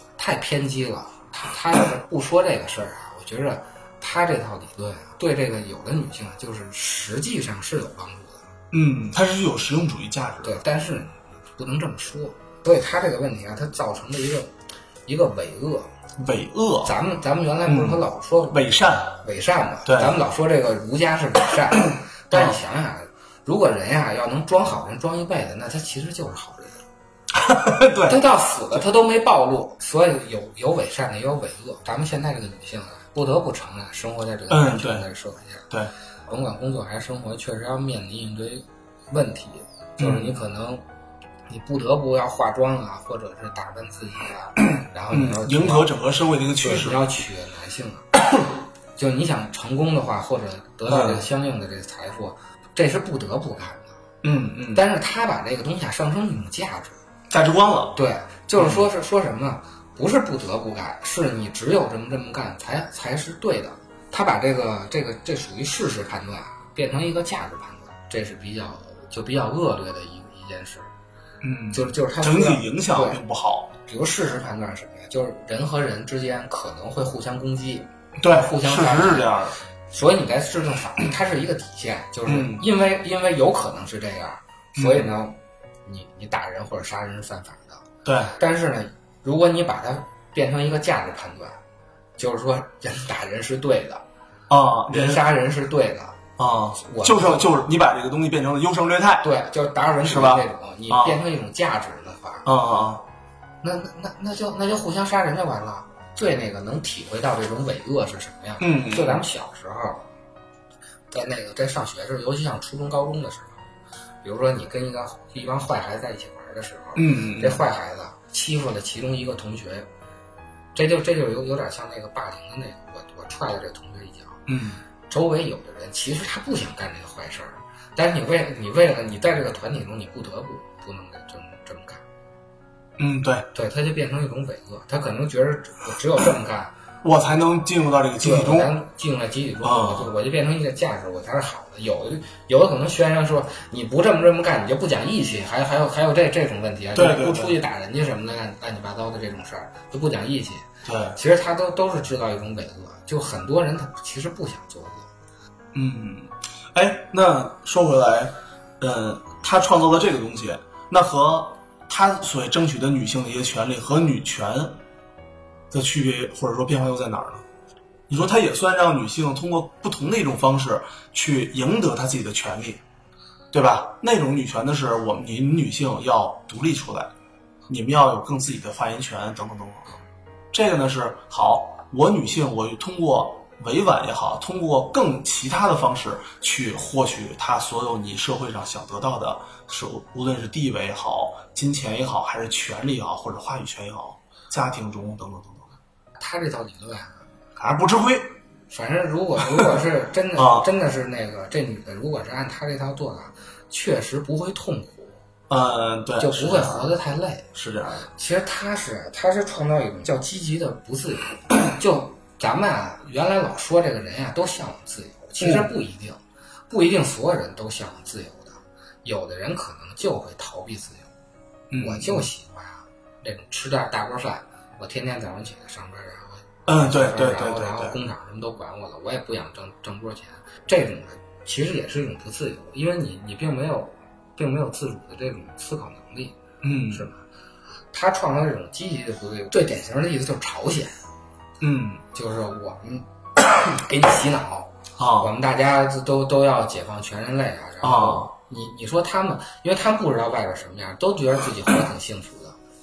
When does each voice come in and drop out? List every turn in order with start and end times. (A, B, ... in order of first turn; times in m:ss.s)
0:00.2-0:08.4 A
0:08.7-0:10.6 B
0:10.4-0:14.5 A
0:15.0-0:15.9 A
0:16.2-0:17.0 B
0:16.8-0:26.8 A
0:17.6-0:19.2 B
0:19.8-0:20.2 B
0:22.3-0:22.6 B
0:27.3-0:28.2 B
0:28.0-0:35.6 A
0:34.5-0:35.0 B
0:36.3-0:40.8 A
0:40.0-0:40.4 B
0:41.5-0:45.9 A
0:45.1-0:47.0 B
0:46.6-0:48.1 A
0:49.0-0:53.9 A
0:50.9-0:51.2 B
0:54.2-0:54.8 B
0:54.7-0:57.0 A
0:57.3-0:58.0 B
0:57.9-1:10.9 A
0:58.5-0:58.8 B
1:11.4-1:13.7 B
1:11.7-1:13.2 A
1:13.8-1:19.3 A
1:18.2-1:19.6 B
1:19.9-1:31.6 A
1:22.2-1:22.6 B
1:24.8-1:25.1 B
1:28.0-1:28.3 B
1:32.2-1:34.0 A
1:34.5-1:35.2 B
1:34.9-1:36.2 A
1:36.4-1:39.3 B
1:36.8-1:37.5 A
1:39.2-1:42.5 A
1:40.0-1:41.2 B
1:42.4-1:43.0 B
1:43.6-1:50.0 A
1:48.6-1:49.2 B
1:51.1-1:53.6 A
1:54.2-1:59.9 A
1:57.0-1:57.6 B
2:00.7-2:04.4 A
2:04.5-2:04.8 B
2:05.1-2:12.0 A
2:13.0-2:13.5 B
2:13.5-2:16.7 A
2:17.0-2:18.7 B
2:18.2-2:35.1 A
2:19.6-2:20.1 B
2:26.9-2:27.6 B
2:30.8-2:31.2 B
2:35.7-2:44.8 B
2:45.7-2:47.4 B
2:48.1-2:52.8 B
2:53.5-2:57.1 B
2:57.7-2:59.9 B
3:00.5-3:15.7 B
3:16.2-3:17.2 A
3:17.6-3:18.3 B
3:18.7-3:25.2 A
3:19.5-3:19.7 B
3:20.4-3:20.7 B
3:25.5-3:26.9 B
3:26.2-3:27.4 A
3:27.5-3:28.1 B
3:28.1-3:41.1 A
3:35.4-3:35.7 B
3:41.7-3:42.3 B
3:41.8-3:56.4 A
3:46.7-3:48.0 B
3:56.6-3:57.1 B
3:56.9-3:57.2 A
3:57.9-4:00.9 A
4:01.6-4:02.0 B
4:02.1-4:12.6 A
4:05.0-4:05.3 B
4:07.8-4:08.3 B